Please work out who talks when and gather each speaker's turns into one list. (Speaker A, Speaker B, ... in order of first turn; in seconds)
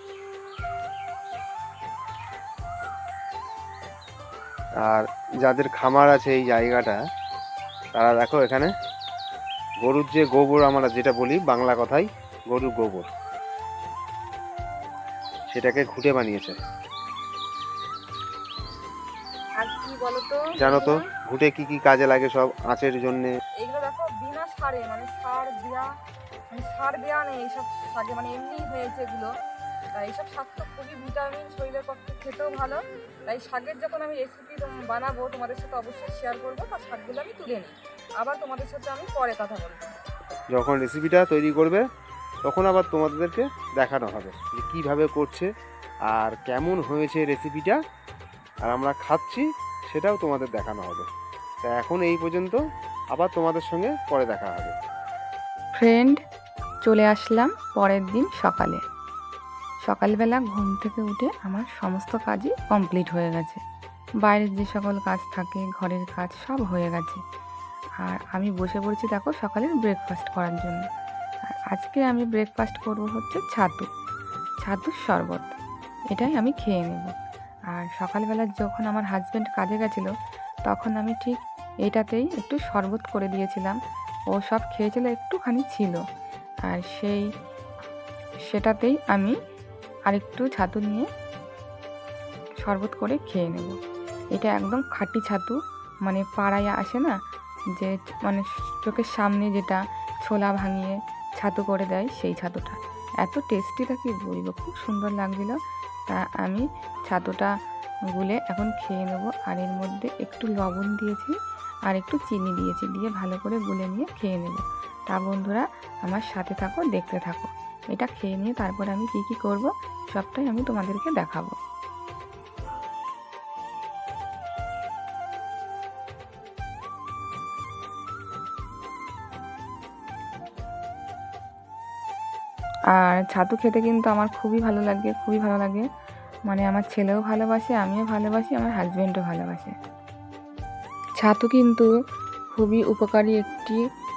Speaker A: 4.8-7.0, 8.0-8.7, 9.8-13.1, 15.5-16.5, 20.6-23.3, 40.5-41.8, 42.5-45.5, 46.1-47.8, 48.6-51.1, 51.6-52.6, 53.1-54.7
Speaker B: 19.6-21.0, 23.6-25.9, 26.5-29.3, 29.9-39.9
Speaker C: 55.8-56.2, 56.8-58.8, 59.9-63.6, 64.2-67.2, 68.0-70.8, 71.7-73.8, 74.6-75.5, 76.1-77.1, 77.7-80.1, 80.7-83.8, 84.3-86.0, 86.7-87.2, 88.5-89.3, 90.1-91.1, 92.6-93.8, 94.4-97.2, 97.8-105.6, 106.1-107.5, 108.2-111.3, 111.9-121.5, 132.9-135.8, 136.5-139.7, 141.2-141.9, 142.5-143.8